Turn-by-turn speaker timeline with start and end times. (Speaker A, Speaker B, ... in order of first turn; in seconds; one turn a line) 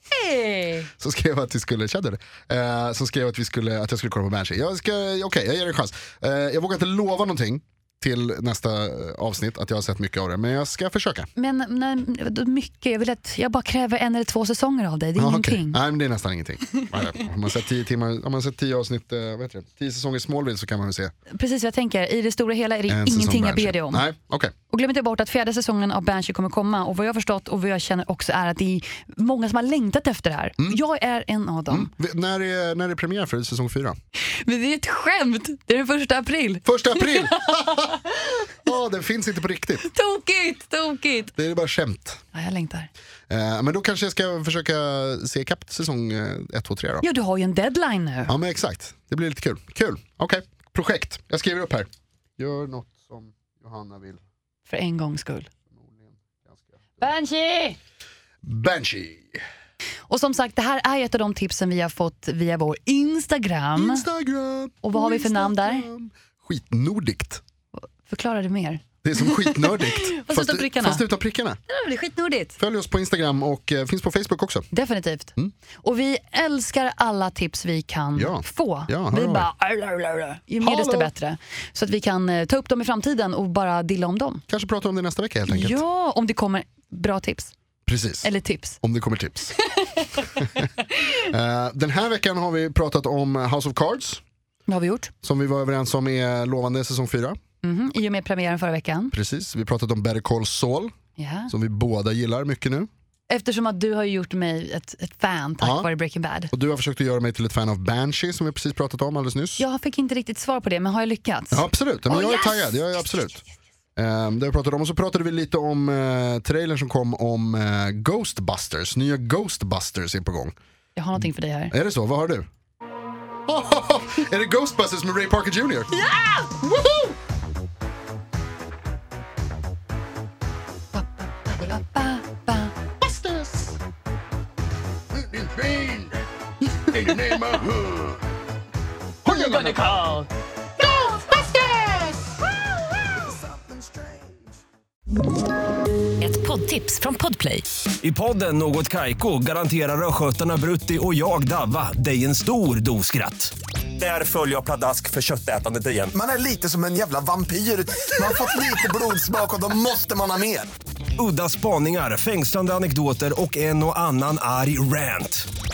Speaker A: 0.1-0.9
Speaker B: 1.0-11.3
Speaker A: 11.4-15.8
Speaker B: 15.2-21.1
Speaker A: 21.3-24.1
Speaker B: 22.9-24.5
Speaker A: 24.7-31.9
Speaker B: 31.7-34.0
Speaker A: 34.4-38.4
Speaker B: 36.6-38.0
Speaker B: 38.6-39.9
Speaker A: 39.8-41.3
Speaker B: 41.4-42.2
Speaker A: 42.3-42.9
Speaker B: 43.3-47.0
Speaker A: 47.0-48.4
Speaker B: 48.3-54.2
Speaker A: 54.7-55.5
Speaker B: 55.7-56.7
Speaker A: 57.0-57.8
Speaker B: 58.4-59.4
Speaker A: 60.1-64.0
Speaker B: 63.8-67.4
Speaker A: 64.8-65.9
Speaker A: 67.8-71.0
Speaker B: 69.0-71.6
Speaker A: 71.7-72.6
Speaker B: 72.6-74.7
Speaker A: 74.7-84.4
Speaker B: 78.2-79.5
Speaker B: 80.6-81.1
Speaker B: 84.5-85.8
Speaker A: 85.5-87.5
Speaker B: 87.9-88.3
Speaker A: 88.2-88.8
Speaker B: 88.8-89.5
Speaker A: 89.6-91.2
Speaker B: 91.3-94.2
Speaker A: 94.7-95.1
Speaker B: 95.2-97.4
Speaker A: 97.6-99.1
Speaker B: 99.1-101.0
Speaker A: 101.2-101.5
Speaker B: 101.5-102.9
Speaker A: 103.3-106.5
Speaker B: 105.6-105.9
Speaker B: 106.5-109.6
Speaker A: 109.6-113.3
Speaker B: 111.5-113.4
Speaker B: 114.0-120.5
Speaker A: 121.0-121.7
Speaker B: 121.7-122.5
Speaker B: 123.5-125.9
Speaker A: 125.9-127.0
Speaker B: 126.7-127.1
Speaker A: 130.9-132.8
Speaker B: 133.0-133.8
Speaker B: 135.1-138.2
Speaker B: 139.2-140.0
Speaker A: 139.2-140.3
Speaker B: 140.8-142.2
Speaker A: 146.2-147.7
Speaker C: 148.0-156.1
Speaker D: 156.1-160.7
Speaker C: 161.2-165.5